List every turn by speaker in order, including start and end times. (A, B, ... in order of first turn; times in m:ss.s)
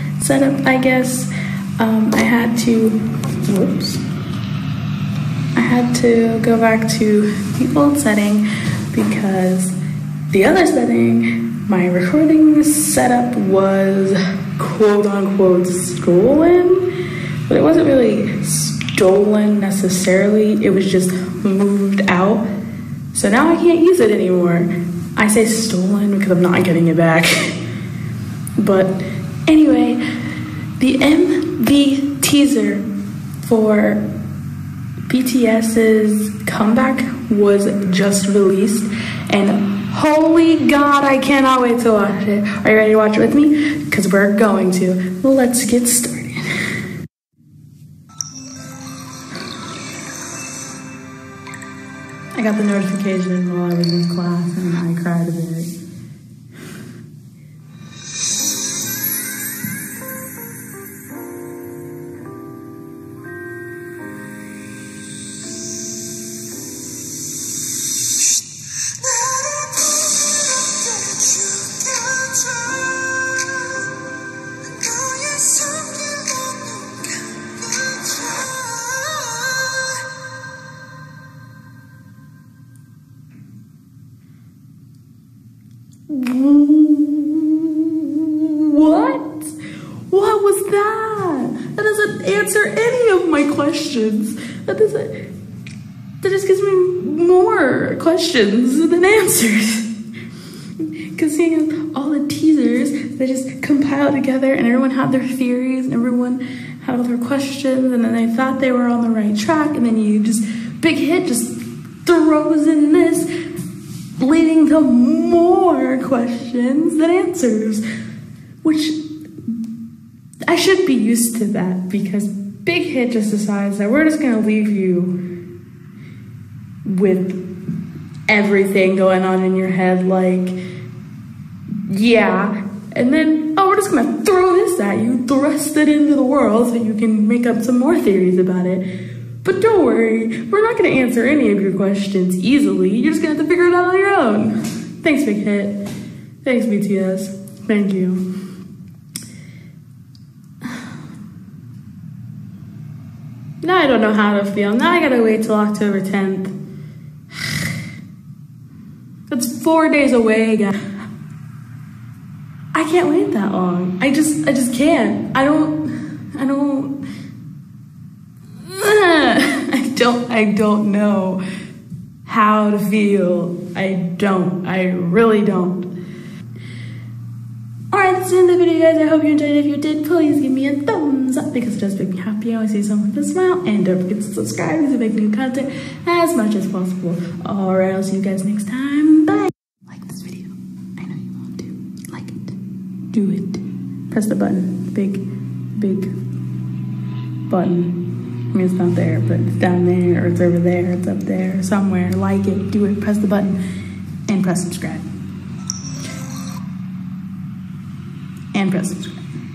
0:00.2-0:04.0 A
0:05.6-0:09.8 A
0:10.3-0:16.9 A
0:17.5-0:22.4 A
0:23.1-0:27.6 A
0:28.6-0:30.0 A
0:30.8-0:32.8 A
0:33.4-0:34.0 A
0:35.1-0:46.5 A
0:52.4-0:55.7 A
1:11.1-1:12.7 A
1:14.8-1:17.1 A
1:18.4-1:19.6 A
1:26.1-1:29.6 A
1:30.1-1:35.3 A
1:36.2-1:39.9 A
1:40.8-1:53.3 A
1:54.2-1:57.8 A
1:58.6-1:59.0 A
2:00.5-2:05.2 A
2:06.8-2:07.4 A
2:08.3-2:10.6 A
2:11.8-2:18.8 A
2:19.4-2:25.8 A
2:26.4-2:28.2 A
2:33.6-2:36.5 A
2:39.3-2:40.7 A
2:42.7-2:46.9 A
2:48.6-2:51.4 A
2:52.3-2:55.9 A
2:57.9-3:12.6 A
3:13.1-3:15.2 A
3:15.8-3:16.1 A
3:17.5-3:18.0 A
3:18.5-3:23.6 A
3:24.3-3:25.1 A
3:28.5-3:29.3 A